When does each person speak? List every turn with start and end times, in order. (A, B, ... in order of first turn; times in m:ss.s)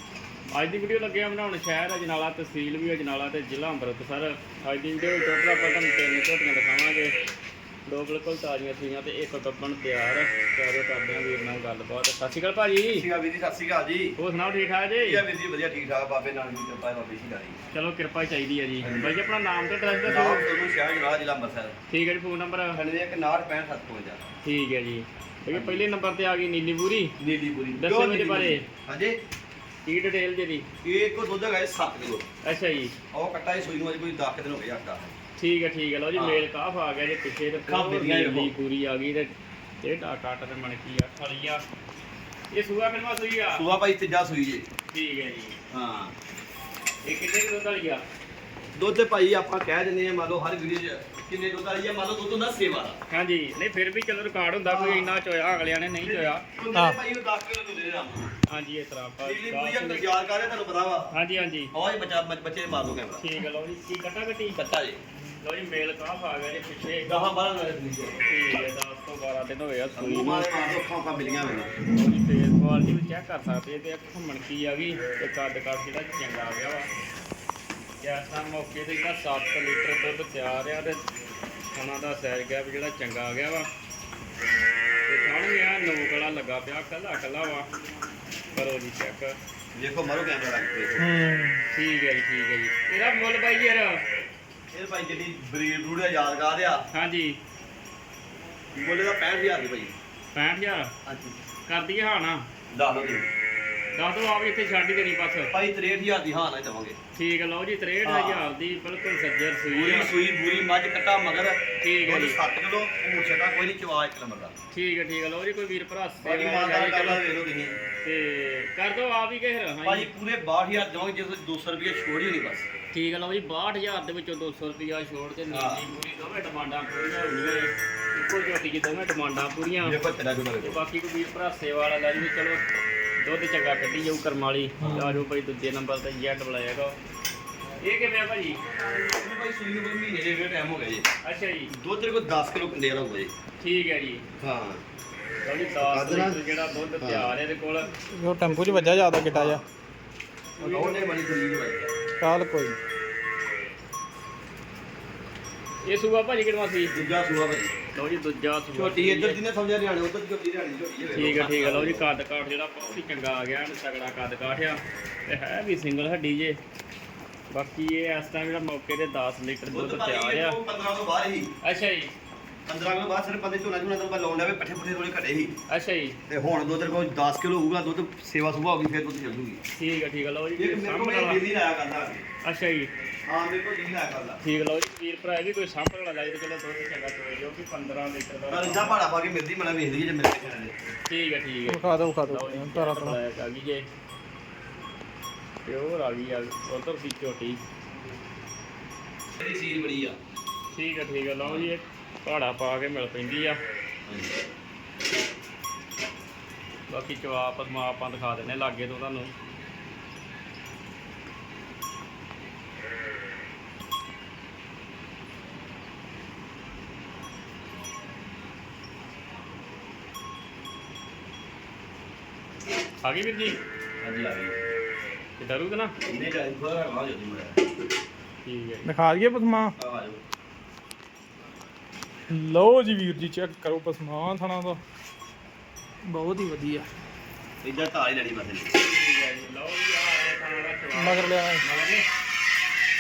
0:00.5-0:07.1 A
0:07.9-0:13.1 A
0:12.9-0:14.2 B
0:14.2-0:15.2 A
0:15.0-0:17.6 B
0:17.7-0:20.4 A
0:18.8-0:19.2 B
0:20.1-0:21.8 B
0:21.9-0:22.8 A
0:22.8-0:24.3 B
0:24.4-0:27.1 A
0:25.5-0:25.8 B
0:27.2-0:29.2 B
0:27.8-0:28.7 A
0:29.9-0:30.7 A
0:30.8-0:32.3 B
0:32.4-0:32.9 A
0:33.1-0:35.2 B
0:35.4-0:39.3 A
0:36.2-0:36.4 B
0:37.7-0:38.5 B
0:39.8-0:41.6 A
0:42.5-0:43.6 A
0:43.5-0:44.6 B
0:44.9-0:45.6 A
0:45.7-0:46.2 B
0:47.0-0:48.0 A
0:48.8-0:53.0 B
0:53.1-0:56.4 A
0:54.7-0:55.2 B
0:56.0-0:58.3 B
0:58.5-1:00.1 A
0:59.2-1:01.1 B
1:01.1-1:01.7 A
1:01.7-1:03.2 B
1:03.2-1:04.6 A
1:04.6-1:05.0 B
1:05.4-1:07.1 A
1:07.0-1:08.2 B
1:08.2-1:10.5 A
1:10.0-1:11.8 B
1:12.0-1:16.9 A
1:18.0-1:21.0 A
1:21.7-1:23.7 A
1:25.1-1:27.7 A
1:28.6-1:29.4 A
1:29.7-1:31.1 B
1:31.0-1:31.6 C
1:31.7-1:34.0 A
1:34.7-1:36.8 B
1:36.9-1:37.4 A
1:38.7-1:39.9 B
1:40.3-1:40.9 A
1:41.0-1:41.4 B
1:41.7-1:42.4 A
1:42.7-1:43.3 B
1:44.0-1:45.5 A
1:45.5-1:47.0 B
1:47.2-1:50.1 A
1:48.0-1:48.5 B
1:49.7-1:54.5 B
1:51.8-1:52.4 A
1:54.7-1:57.2 A
1:56.2-1:57.8 B
1:58.0-2:00.1 A
1:59.8-2:02.7 B
2:02.9-2:10.0 A
2:05.5-2:05.8 B
2:09.8-2:10.8 B
2:10.6-2:12.6 A
2:13.2-2:17.0 A
2:14.8-2:15.2 B
2:17.8-2:18.6 A
2:19.0-2:21.1 B
2:21.2-2:21.7 A
2:21.7-2:23.3 B
2:23.6-2:24.3 A
2:24.4-2:24.8 B
2:25.4-2:27.9 A
2:25.8-2:26.4 B
2:27.0-2:27.3 B
2:28.0-2:29.6 C
2:29.3-2:29.6 B
2:30.6-2:31.1 A
2:30.6-2:31.9 B
2:32.2-2:32.8 C
2:35.8-2:36.9 A
2:36.9-2:37.7 B
2:37.9-2:39.4 A
2:38.7-2:42.1 B
2:41.2-2:46.6 A
2:47.5-2:50.6 A
2:49.7-2:51.5 B
2:51.6-2:52.1 A
2:52.7-2:55.5 B
2:55.7-2:56.2 A
2:56.3-2:59.6 B
2:59.7-3:01.4 A
3:00.6-3:02.3 B
3:02.4-3:02.9 A
3:03.3-3:04.4 B
3:04.4-3:09.0 A
3:08.5-3:10.8 B
3:11.1-3:13.9 A
3:11.7-3:13.2 C
3:15.6-3:17.6 A
3:19.4-3:20.2 B
3:20.7-3:23.6 A
3:21.4-3:21.7 B
3:24.1-3:24.4 B
3:26.9-3:29.3 A
3:43.0-3:43.6 A
3:44.0-3:44.6 B
3:45.4-3:45.9 A
3:46.1-3:47.7 B
3:48.4-3:48.9 A
3:48.8-3:49.7 C
3:49.8-3:50.2 B
3:52.3-3:54.8 C
3:56.0-3:56.9 C
3:57.6-3:58.8 B
3:58.8-4:02.0 A
4:00.9-4:01.6 C